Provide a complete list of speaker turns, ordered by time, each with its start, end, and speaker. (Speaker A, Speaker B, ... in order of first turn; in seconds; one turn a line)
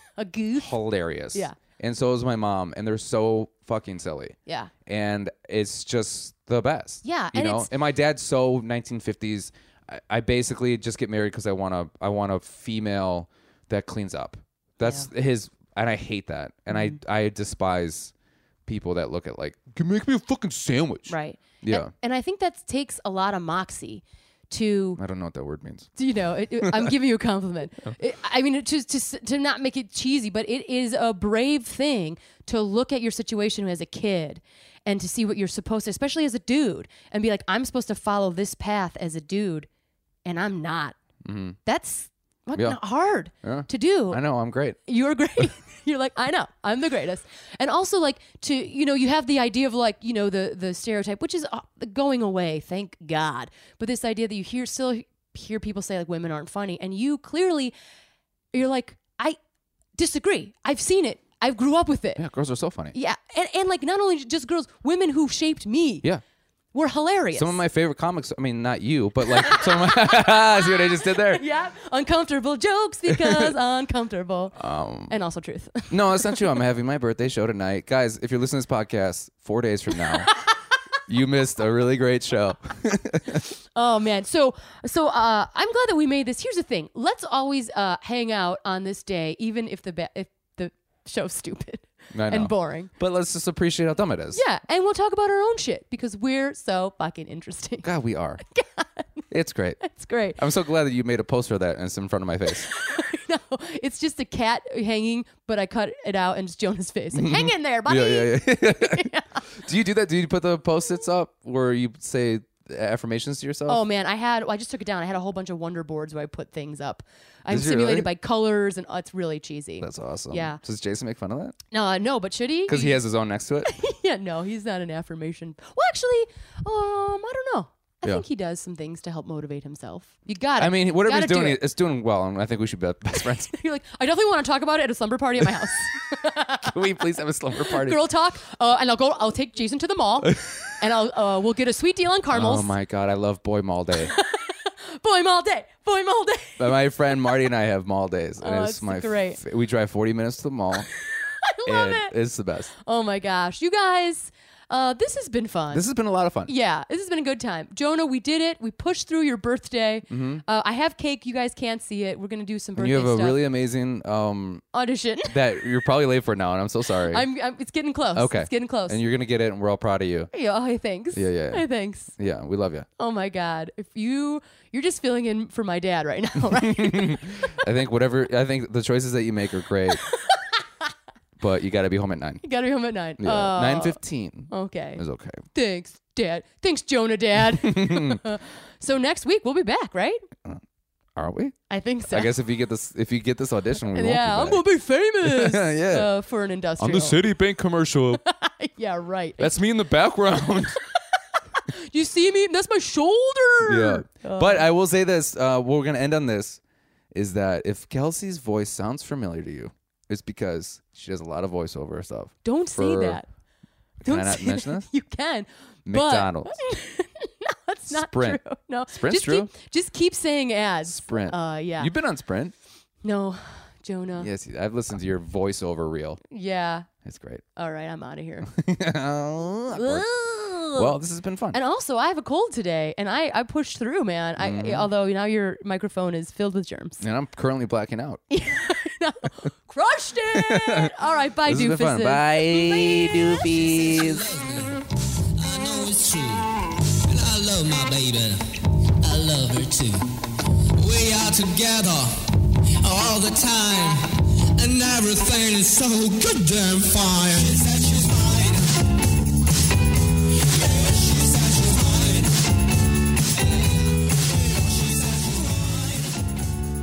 Speaker A: 0.2-0.8
Speaker B: 0.6-18.1
Speaker A: 7.0-7.7
Speaker A: 14.8-15.1
Speaker B: 18.7-21.9
Speaker A: 21.1-25.0
Speaker B: 25.0-25.9
Speaker A: 26.0-39.7
Speaker B: 26.6-26.9
Speaker A: 40.2-41.0
Speaker B: 41.2-41.6
Speaker A: 41.7-44.2
Speaker B: 43.4-44.8
Speaker A: 44.9-57.8
Speaker A: 58.5-59.4
Speaker A: 60.0-62.2
Speaker B: 62.2-63.0
Speaker A: 62.9-66.1
Speaker A: 66.7-67.6
Speaker B: 67.3-71.4
Speaker A: 69.3-74.6
Speaker B: 73.1-73.5
Speaker B: 74.6-75.2
Speaker A: 75.1-76.5
Speaker B: 75.9-80.3
Speaker B: 81.1-83.4
Speaker A: 83.8-92.9
Speaker B: 92.1-94.4
Speaker A: 94.3-97.9
Speaker B: 97.8-98.4
Speaker A: 98.4-99.2
Speaker B: 99.3-102.7
Speaker A: 99.8-100.4
Speaker A: 102.5-109.3
Speaker B: 107.1-113.8
Speaker A: 113.7-120.6
Speaker B: 117.5-118.1
Speaker B: 119.8-121.5
Speaker A: 121.7-123.0
Speaker B: 122.7-123.7
Speaker A: 123.7-131.6
Speaker B: 130.6-133.5
Speaker A: 133.5-136.7
Speaker B: 136.6-138.0
Speaker A: 137.7-142.8
Speaker B: 142.3-144.1
Speaker A: 144.1-146.7
Speaker B: 146.6-150.9
Speaker A: 148.4-149.4
Speaker A: 151.4-152.2
Speaker B: 151.7-152.7
Speaker A: 152.7-155.8
Speaker B: 155.7-156.5
Speaker A: 156.5-163.4
Speaker B: 160.1-160.4
Speaker B: 162.8-164.7
Speaker A: 164.7-165.4
Speaker B: 165.3-167.3
Speaker A: 167.1-169.0
Speaker B: 168.1-170.3
Speaker A: 170.3-172.2
Speaker B: 171.1-172.9
Speaker A: 173.0-177.6
Speaker B: 176.5-180.1
Speaker A: 180.1-180.6
Speaker B: 181.4-182.4
Speaker A: 182.4-185.0
Speaker B: 183.2-185.4
Speaker A: 185.5-190.2
Speaker B: 187.5-188.2
Speaker B: 191.2-191.6
Speaker A: 191.7-192.3
Speaker B: 192.1-194.6
Speaker A: 193.9-197.2
Speaker B: 195.2-196.1
Speaker B: 196.8-198.2
Speaker A: 198.2-199.5
Speaker B: 199.4-200.8
Speaker A: 201.6-204.7
Speaker B: 203.7-206.6
Speaker B: 207.1-213.2
Speaker A: 212.4-213.3
Speaker B: 214.0-214.9
Speaker A: 214.0-221.9
Speaker B: 215.9-216.6
Speaker B: 217.9-218.4
Speaker B: 218.9-219.5
Speaker B: 220.9-222.5
Speaker A: 223.0-224.3
Speaker B: 224.2-226.2
Speaker A: 226.3-226.9
Speaker B: 227.0-227.4
Speaker A: 227.6-228.5
Speaker B: 228.5-230.1
Speaker A: 229.7-230.9
Speaker B: 230.8-231.6
Speaker A: 231.5-237.0
Speaker B: 234.4-234.9
Speaker B: 237.0-238.2
Speaker A: 238.3-243.7
Speaker B: 240.3-240.9
Speaker B: 241.5-244.2
Speaker C: 243.6-244.8
Speaker C: 245.4-248.4
Speaker C: 249.0-258.8
Speaker C: 260.4-262.6
Speaker C: 263.4-266.2